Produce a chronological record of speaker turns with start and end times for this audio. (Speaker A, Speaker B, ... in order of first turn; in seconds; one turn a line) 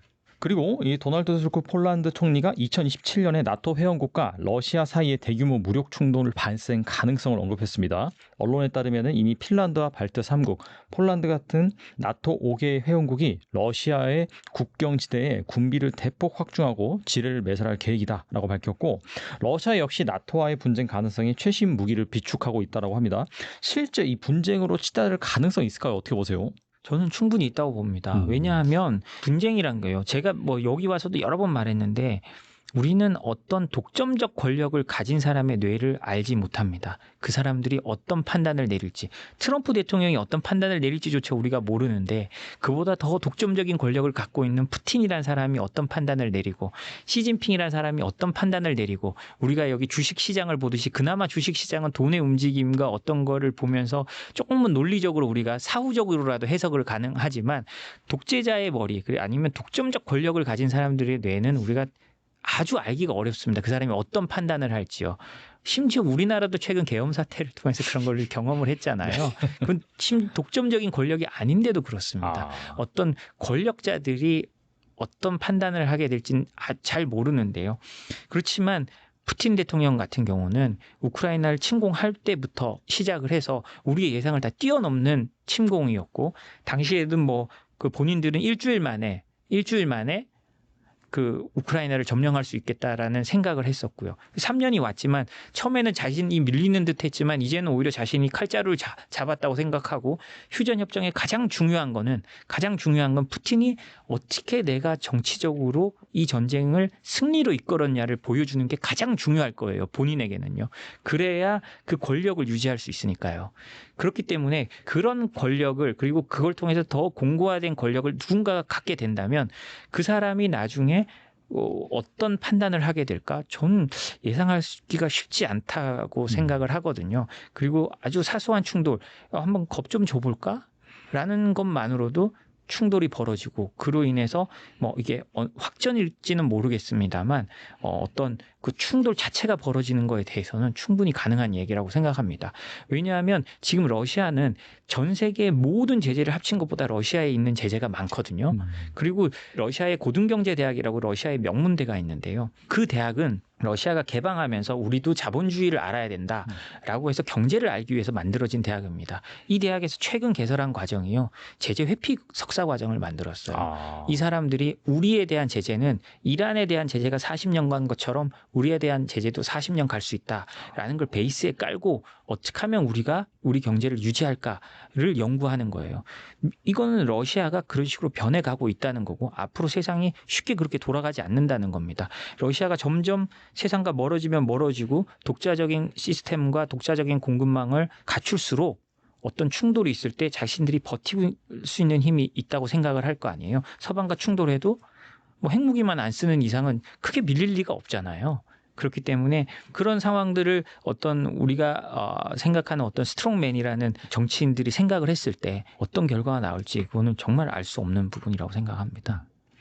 Speaker A: 0.4-26.5
Speaker B: 26.8-61.9
Speaker A: 28.1-28.5
Speaker B: 62.4-90.3
Speaker A: 72.2-72.8
Speaker B: 91.1-194.8
Speaker A: 163.5-164.2
Speaker B: 195.4-209.2